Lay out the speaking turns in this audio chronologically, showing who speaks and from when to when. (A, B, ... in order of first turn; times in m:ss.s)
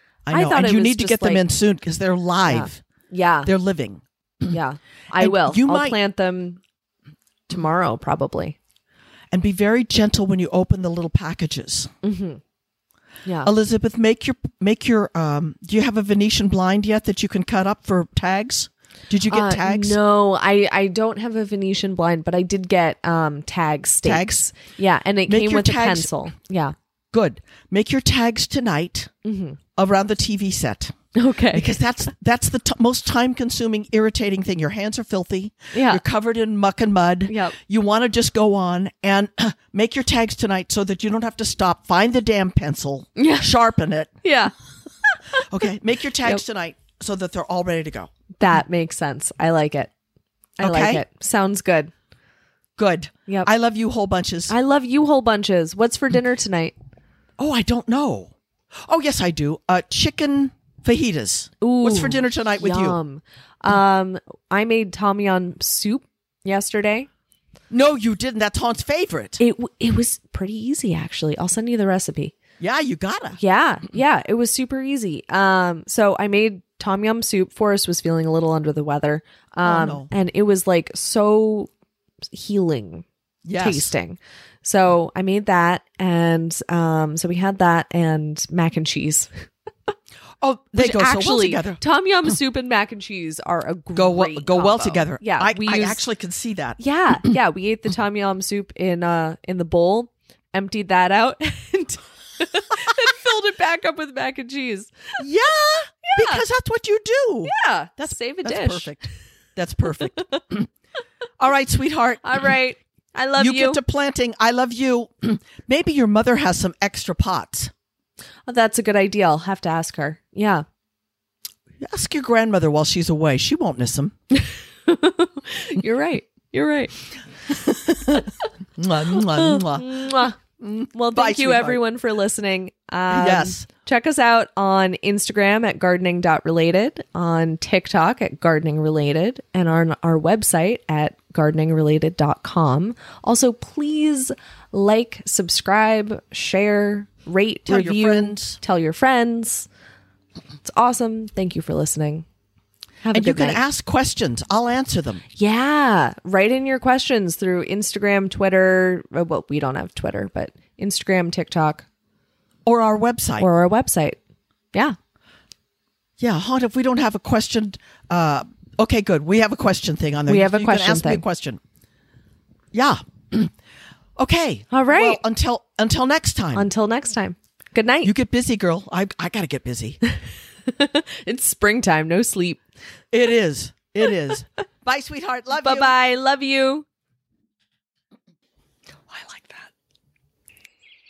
0:00.3-0:02.8 A
0:00.3-0:01.4 B
0:02.5-0:03.5 B
0:03.4-0:04.6 A
0:04.5-0:06.6 B
0:05.2-0:06.0 A
0:07.5-0:08.6 B
0:09.3-0:11.9 A
0:12.0-0:12.4 B
0:13.3-0:13.5 B
0:13.4-0:20.0 A
0:19.3-0:26.7 B
0:24.0-0:24.4 A
0:25.3-0:26.1 A
0:27.1-0:29.1 A
0:29.2-0:29.6 B
0:29.8-0:30.9 A
0:31.1-0:31.8 B
0:31.5-0:44.1 A
0:35.7-0:36.0 B
0:37.3-0:37.6 B
0:43.2-0:43.5 B
0:44.2-0:44.5 B
0:45.1-0:45.4 B
0:45.4-0:48.1 A
0:48.4-0:49.9 B
0:50.6-0:51.9 B
0:50.6-0:51.0 A
0:52.8-0:54.5 A
0:54.5-0:56.7 B
0:57.4-0:58.3 A
0:58.8-1:03.0 A
1:01.6-1:07.1 B
1:07.7-1:09.4 A
1:09.4-1:12.4 B
1:12.6-1:13.4 A
1:13.4-1:21.7 B
1:19.6-1:20.1 A
1:22.3-1:23.1 B
1:23.4-1:23.9 A
1:23.6-1:29.3 B
1:30.4-1:31.8 A
1:30.8-1:36.0 B
1:33.9-1:36.8 A
1:36.8-1:45.2 B
1:45.2-1:50.7 A
1:46.0-1:46.4 B
1:47.4-1:48.9 B
1:50.1-1:50.4 B
1:51.4-1:52.4 A
1:52.2-1:53.8 B
1:53.4-1:57.7 A
1:58.5-2:00.6 B
2:01.8-2:04.1 A
2:04.4-2:06.9 B
2:07.5-2:11.8 A
2:09.2-2:10.4 B
2:10.9-2:29.7 B
2:13.1-2:13.6 A
2:27.7-2:28.6 A
2:30.6-2:32.3 B
2:33.0-2:33.6 B
2:33.1-2:35.2 A
2:35.4-2:41.8 B
2:42.6-2:43.5 A
2:43.4-2:44.2 B
2:46.2-2:51.6 A
2:50.3-2:51.2 B
2:52.7-2:53.5 A
2:54.2-2:56.7 A
2:54.7-2:55.2 B
2:56.6-2:58.1 B
2:58.0-3:00.0 A
3:00.7-3:02.6 B
3:03.1-3:05.9 A
3:05.5-3:06.8 B
3:09.1-3:09.7 A